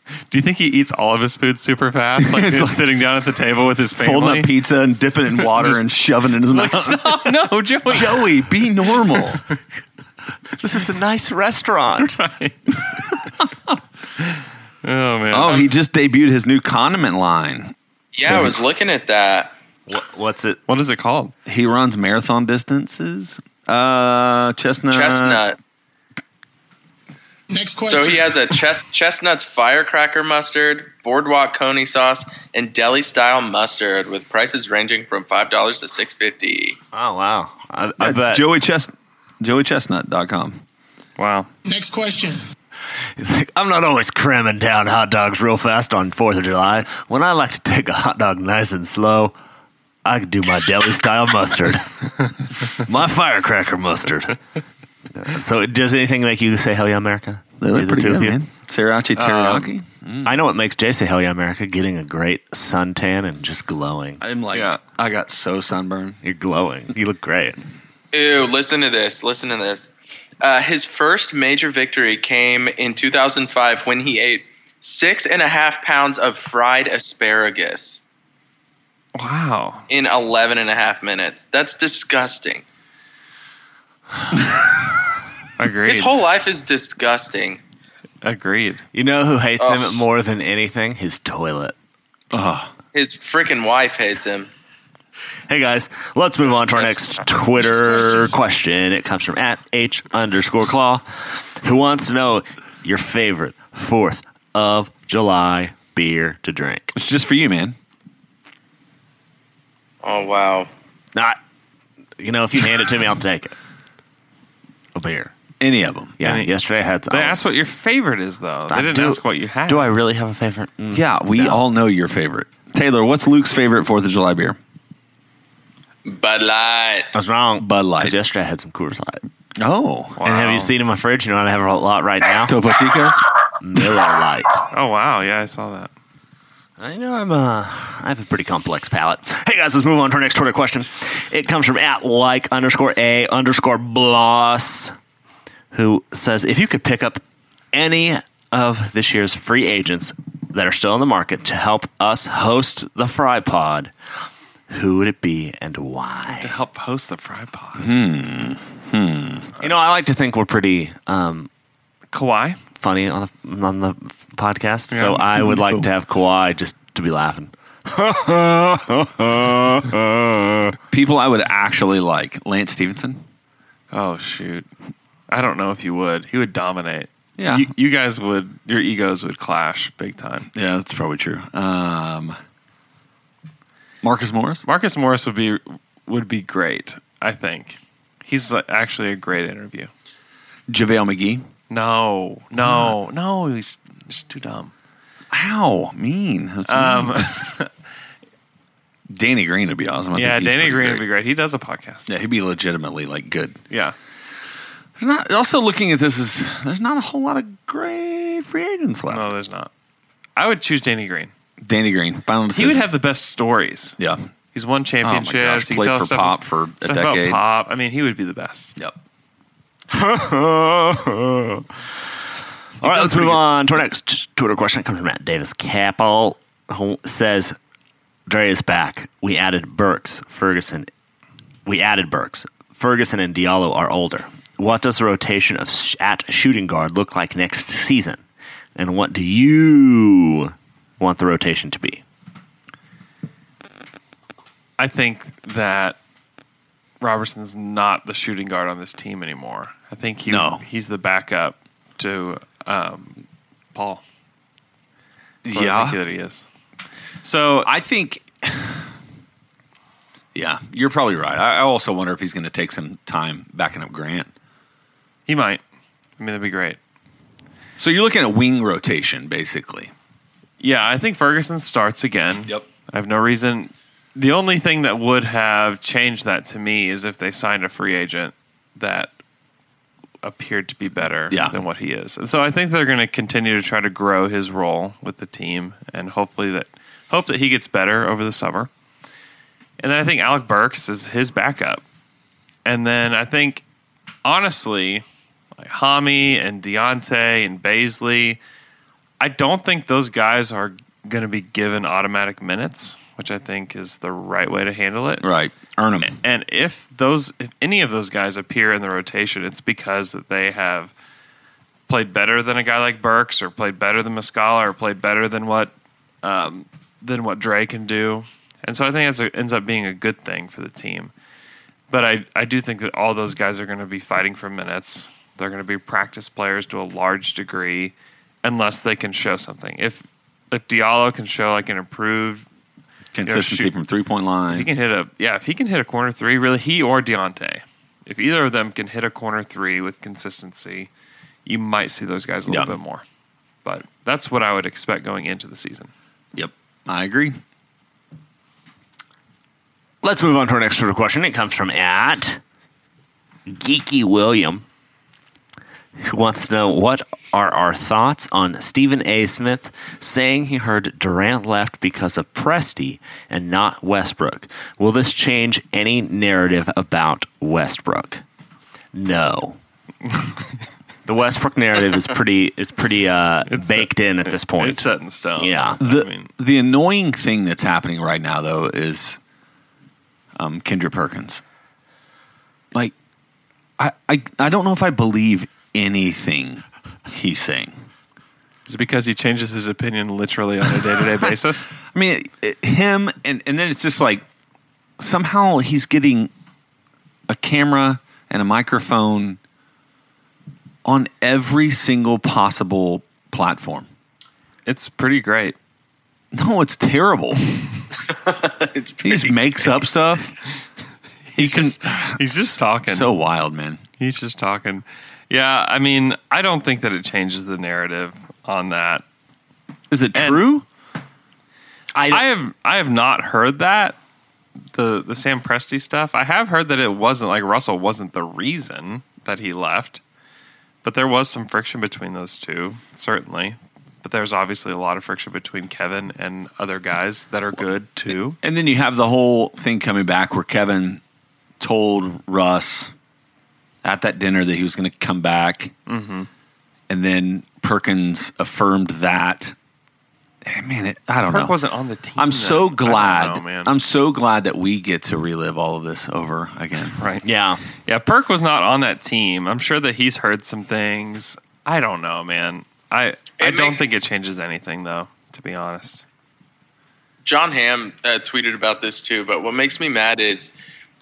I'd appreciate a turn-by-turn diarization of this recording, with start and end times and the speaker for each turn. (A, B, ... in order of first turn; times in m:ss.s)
0:00.3-0:04.5 A
0:02.2-0:02.8 B
0:04.0-0:07.3 B
0:05.4-0:05.8 A
0:06.5-0:08.3 A
0:07.8-0:09.4 B
0:10.6-0:12.2 C
0:12.2-0:12.7 A
0:14.8-0:15.7 A
0:15.3-0:17.7 B
0:18.1-0:19.6 D
0:18.2-0:18.5 B
0:19.9-0:20.6 C
0:20.7-0:21.3 A
0:21.4-0:25.4 B
0:24.9-0:25.6 D
0:27.5-0:28.6 E
0:27.9-0:36.8 D
0:36.9-0:38.4 C
0:38.0-0:40.6 B
0:41.2-0:41.5 A
0:41.6-0:42.4 E
0:43.2-0:49.3 C
0:50.0-0:54.4 C
0:55.2-0:58.4 C
0:57.6-1:00.4 B
0:59.2-0:59.7 A
1:00.2-1:04.2 C
1:04.2-1:06.2 B
1:04.5-1:04.8 A
1:06.2-1:07.6 C
1:08.1-1:09.9 D
1:10.4-1:18.0 D
1:19.1-1:19.8 A
1:19.9-1:22.6 D
1:25.6-1:26.1 A
1:25.8-1:27.6 D
1:28.2-1:28.8 A
1:28.9-1:31.7 C
1:29.6-1:30.0 D
1:32.3-1:32.7 B
1:32.9-1:34.5 D
1:35.5-1:46.9 C
1:36.7-1:38.3 D
1:46.9-1:47.8 B
1:50.0-1:50.7 D
1:52.2-1:53.5 C
1:54.9-1:55.3 C
1:55.6-1:56.2 B
1:56.2-1:57.5 C
1:56.2-1:56.5 A
1:57.1-1:59.9 A
1:58.7-2:01.6 C
2:00.9-2:04.6 B
2:06.0-2:07.1 D
2:07.1-2:09.2 C
2:07.6-2:08.2 B
2:09.6-2:10.2 B
2:10.2-2:10.7 A
2:10.2-2:12.5 C
2:12.5-2:13.2 B
2:13.6-2:14.6 C
2:14.7-2:15.9 A
2:16.8-2:24.9 C
2:25.7-2:27.2 C
2:27.7-2:33.9 C
2:34.7-2:36.5 C
2:36.3-2:37.9 A
2:37.8-2:39.5 B
2:39.6-2:41.5 C
2:42.1-2:42.6 A
2:42.8-2:50.8 C
2:44.9-2:45.2 A
2:45.4-2:45.9 B
2:50.9-2:53.2 B
2:53.9-2:54.7 A
2:55.3-3:00.5 A
2:57.4-2:57.7 B
3:00.5-3:02.4 B
3:04.0-3:04.6 B
3:04.6-3:09.9 A
3:10.7-3:11.4 B
3:11.7-3:14.7 A
3:12.6-3:12.9 B
3:15.3-3:17.2 B
3:16.7-3:17.7 A
3:19.1-3:21.0 B
3:20.1-3:22.1 A
3:22.1-3:23.6 B
3:23.7-3:23.9 A
3:25.0-3:29.3 B
3:29.1-3:29.7 A
3:30.4-3:31.3 A
3:31.6-3:32.9 B
3:32.5-3:34.0 A
3:34.0-3:34.2 B
3:34.5-3:38.7 A
3:35.0-3:37.4 B
3:39.9-3:41.7 C
3:42.8-3:43.4 B
3:42.8-3:47.6 C
3:48.3-3:50.9 C
3:51.6-3:58.2 C
3:58.8-4:02.0 C
4:04.8-4:06.0 A
4:07.0-4:13.2 A
4:10.3-4:10.6 B
4:13.7-4:14.0 A
4:15.4-4:16.0 B
4:15.5-4:16.4 A
4:17.2-4:17.7 A
4:17.6-4:18.9 B
4:20.3-4:24.3 B
4:25.3-4:25.6 A
4:26.2-4:26.8 A
4:27.8-4:29.9 B
4:30.6-4:39.1 A
4:40.2-4:48.7 A
4:41.3-4:41.6 B
4:49.8-4:51.8 A
4:52.6-4:53.6 A
4:54.2-4:55.0 A
4:55.6-4:58.4 A
4:59.2-5:05.2 A
5:05.2-5:06.1 B
5:06.0-5:10.9 A
5:11.9-5:21.1 A
5:21.9-5:32.4 A
5:33.1-5:34.7 B
5:33.2-5:33.7 A
5:34.5-5:40.9 A
5:41.4-5:43.0 A
5:42.5-5:42.7 B
5:43.6-5:45.9 A
5:46.3-5:47.4 B
5:50.0-5:52.4 C
5:53.5-5:54.6 C
5:56.0-6:08.2 C
6:08.9-6:09.6 C
6:11.0-6:15.8 C
6:13.5-6:16.3 A
6:15.8-6:19.2 B
6:20.4-6:21.4 B
6:23.8-6:27.7 B
6:28.7-6:31.7 A
6:31.9-6:34.2 B
6:35.0-6:36.3 B
6:37.3-6:39.4 B
6:40.8-6:43.9 B
6:44.6-6:45.6 A
6:46.3-6:47.4 B
6:48.1-6:49.7 D
6:49.0-6:50.3 B
6:51.3-6:53.1 A
6:51.4-6:53.8 B
6:54.0-6:59.0 A
6:59.9-7:00.6 B
7:00.1-7:00.4 A
7:01.9-7:02.2 C
7:02.1-7:04.0 A
7:04.7-7:10.0 A
7:10.8-7:18.4 A
7:18.4-7:21.0 B
7:21.6-7:22.9 B
7:23.8-7:25.7 B
7:25.9-7:26.3 A
7:26.9-7:29.5 B
7:30.4-7:31.6 B
7:31.2-7:33.7 A
7:32.2-7:37.0 B
7:37.0-7:37.2 A
7:37.2-7:37.6 C
7:37.8-7:46.0 A
7:43.4-7:43.8 D
7:47.2-7:50.5 D